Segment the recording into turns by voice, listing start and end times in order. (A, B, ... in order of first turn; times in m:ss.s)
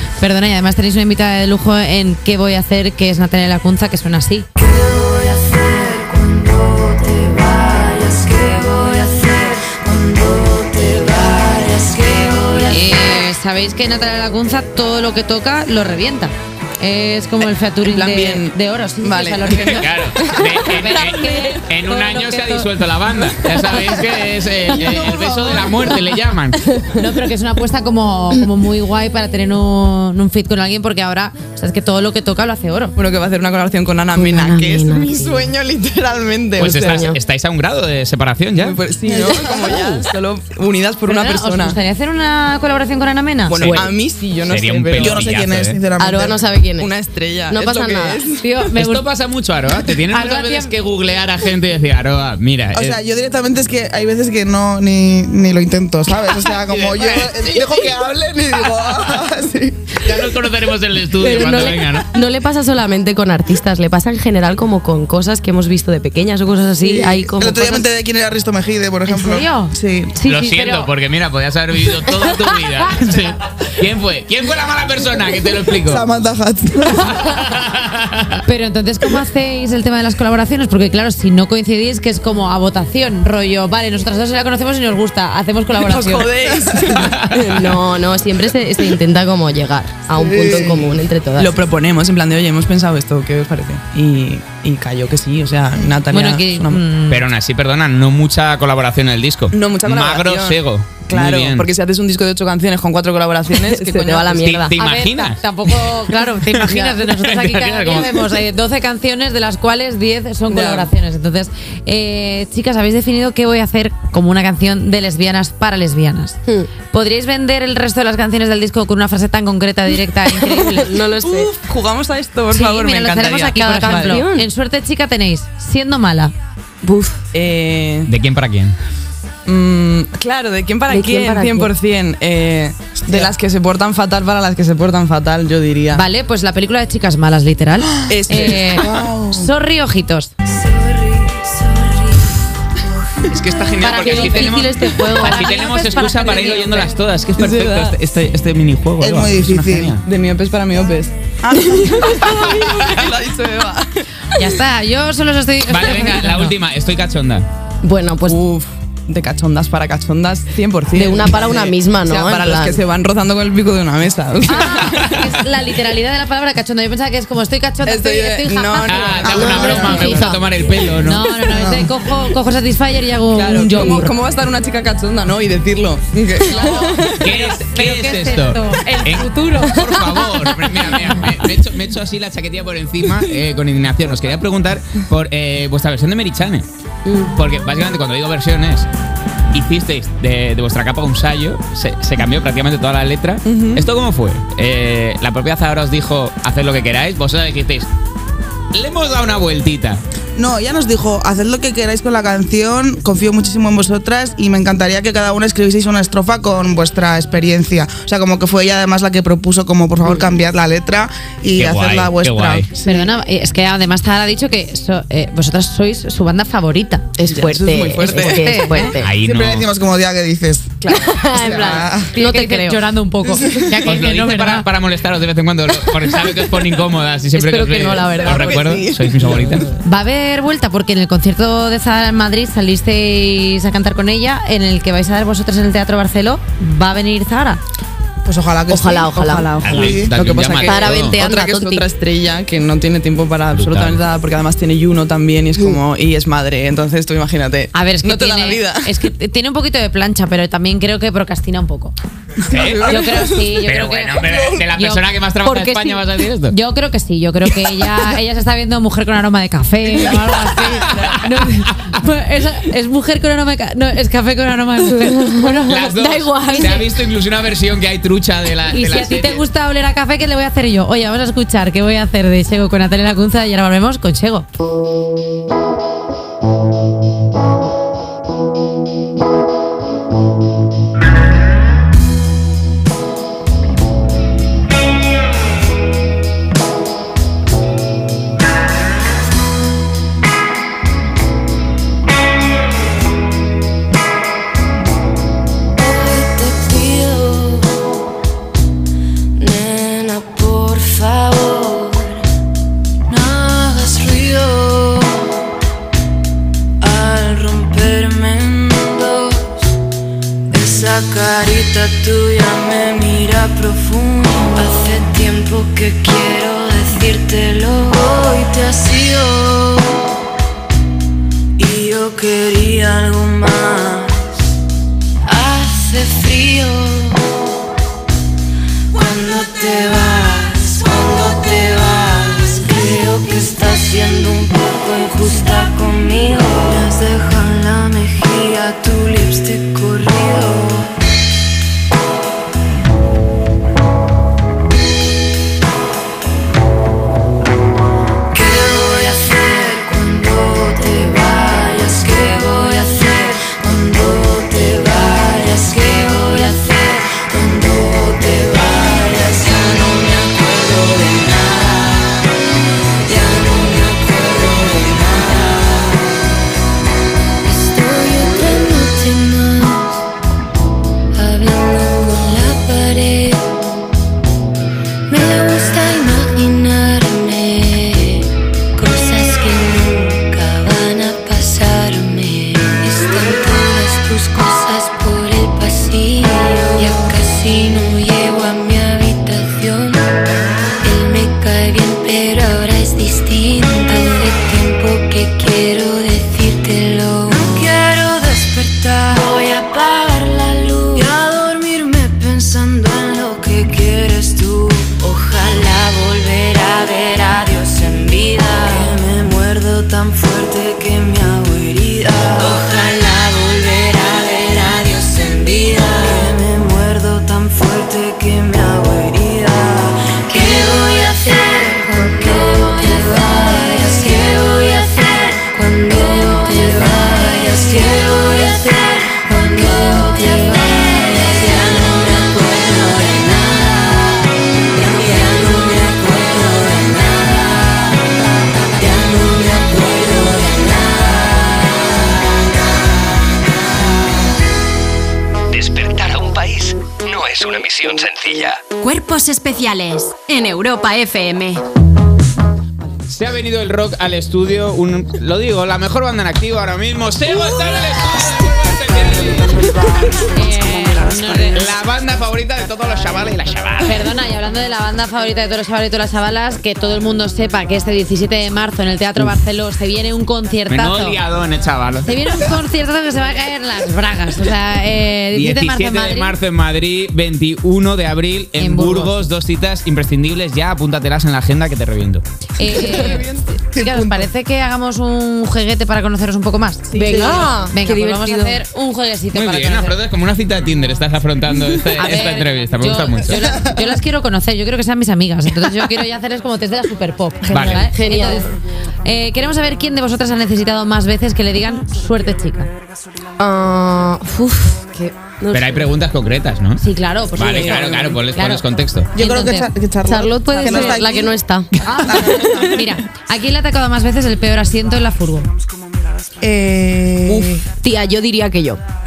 0:00.2-0:04.4 A
0:04.6-0:13.2 B
0:12.7-0:22.7 A
0:17.8-0:20.0 C
0:19.6-0:26.6 D
0:26.9-0:32.9 A
0:33.0-0:37.0 C
0:34.1-0:35.5 E
0:36.6-0:38.8 D
0:36.6-0:37.2 E
0:38.6-0:41.8 C
0:39.1-0:39.6 E
0:39.7-0:40.0 D
0:41.1-0:43.8 A
0:43.5-0:45.2 C
0:43.6-0:43.8 D
0:44.4-0:45.8 D
0:45.0-0:46.4 F
0:46.0-0:46.9 E
0:46.8-0:48.4 C
0:47.5-0:48.2 E
0:48.4-0:49.0 A
0:48.7-0:53.0 D
0:50.1-0:50.7 A
0:52.7-1:00.0 F
0:56.4-0:57.9 D
1:00.0-1:02.1 D
1:01.2-1:07.9 E
1:06.8-1:10.2 F
1:09.0-1:10.9 A
1:10.2-1:16.0 D
1:15.8-1:17.4 F
1:17.0-1:18.4 D
1:18.4-1:26.3 A
1:25.8-1:27.3 C
1:27.3-1:31.6 E
1:30.1-1:30.9 F
1:31.4-1:36.8 C
1:36.1-1:37.2 A
1:37.1-1:41.7 D
1:39.5-1:44.6 C
1:43.7-1:44.8 E
1:44.4-1:48.3 D
1:44.7-1:56.4 A
1:50.5-1:50.9 C
1:56.9-2:00.9 A
2:00.5-2:01.5 E
2:01.1-2:04.2 C
2:02.5-2:06.3 A
2:03.6-2:04.5 E
2:06.8-2:07.2 E
2:07.3-2:08.1 C
2:08.1-2:08.8 D
2:09.4-2:16.0 C
2:10.9-2:11.7 E
2:13.0-2:13.3 F
2:15.9-2:20.3 A
2:18.1-2:18.8 C
2:18.7-2:19.5 F
2:20.6-2:22.3 B
2:23.2-2:30.0 D
2:23.8-2:27.0 A
2:23.8-2:25.5 E
2:27.4-2:28.0 C
2:29.0-2:30.0 F
2:30.0-2:34.2 C
2:34.4-2:36.5 A
2:35.7-2:37.4 D
2:37.8-2:38.4 E
2:38.2-2:45.1 C
2:40.9-2:42.8 E
2:44.4-2:50.4 A
2:47.8-2:50.4 C
2:48.8-2:51.3 D
2:49.3-2:50.1 F
2:50.0-2:50.3 E
2:51.0-2:54.1 A
2:51.5-2:51.9 F
2:53.3-2:57.0 C
2:56.5-3:00.4 A
2:56.7-2:57.1 E
2:57.2-3:06.6 D
2:59.6-3:00.5 E
3:07.0-3:07.3 E
3:07.3-3:08.9 D
3:09.5-3:17.9 D
3:13.4-3:13.8 C
3:18.7-3:20.0 D
3:20.4-3:33.1 F
3:31.6-3:32.7 D
3:32.8-3:37.1 A
3:37.2-3:39.1 E
3:37.2-3:39.0 C
3:38.1-3:38.9 A
3:39.0-3:39.7 D
3:39.2-3:42.1 F
3:40.9-3:42.8 E
3:42.1-3:44.7 A
3:43.3-3:43.7 F
3:43.8-3:49.7 D
3:47.3-3:48.8 E
3:48.0-3:49.7 C
3:49.8-3:57.6 A
3:58.2-4:00.2 F
3:58.7-3:59.5 E
3:59.1-4:08.9 C
3:59.6-4:01.2 D
4:00.6-4:01.9 E
4:03.5-4:04.0 D
4:07.7-4:11.9 A
4:12.5-4:12.9 D
4:12.5-4:13.6 C
4:12.6-4:26.8 A
4:13.6-4:16.5 D
4:19.9-4:21.2 C
4:20.6-4:21.6 D
4:25.6-4:29.4 D
4:26.2-4:26.7 E
4:28.7-4:34.4 A
4:55.8-4:57.8 B
4:59.4-5:02.2 B
5:03.1-5:05.4 B
5:06.8-5:09.6 B
5:10.5-5:20.1 B
5:21.6-5:24.2 B
5:25.2-5:27.3 B
5:28.9-5:41.0 B
5:48.3-6:02.2 B
6:03.1-6:06.2 B
6:07.4-6:10.0 B
6:11.1-6:13.6 B
6:15.1-6:30.1 B
6:30.8-7:17.7 B
7:18.8-7:21.3 B
7:25.5-7:28.7 G
7:28.8-7:31.6 H
7:33.1-7:39.7 D
7:40.3-7:41.7 A
7:41.5-7:44.1 D
7:43.8-7:51.2 A
7:50.7-7:52.4 D
7:52.0-7:56.4 A
7:55.3-8:02.2 D
7:58.6-7:59.2 A
8:02.6-8:10.0 A
8:02.8-8:03.2 E
8:03.0-8:04.3 F
8:03.1-8:03.4 C
8:06.9-8:07.6 C
8:06.9-8:08.6 E
8:09.3-8:13.4 D
8:12.0-8:18.5 A
8:13.4-8:13.8 F
8:17.5-8:17.9 D
8:17.9-8:18.5 E
8:19.0-8:22.7 A
8:23.4-8:25.9 E
8:25.5-8:26.8 D
8:26.8-8:31.1 A
8:27.4-8:29.1 D
8:27.5-8:28.2 C
8:29.1-8:31.4 F
8:30.1-8:32.7 E
8:31.8-8:35.5 A
8:32.0-8:32.8 F
8:36.4-8:37.6 F
8:37.3-8:38.8 E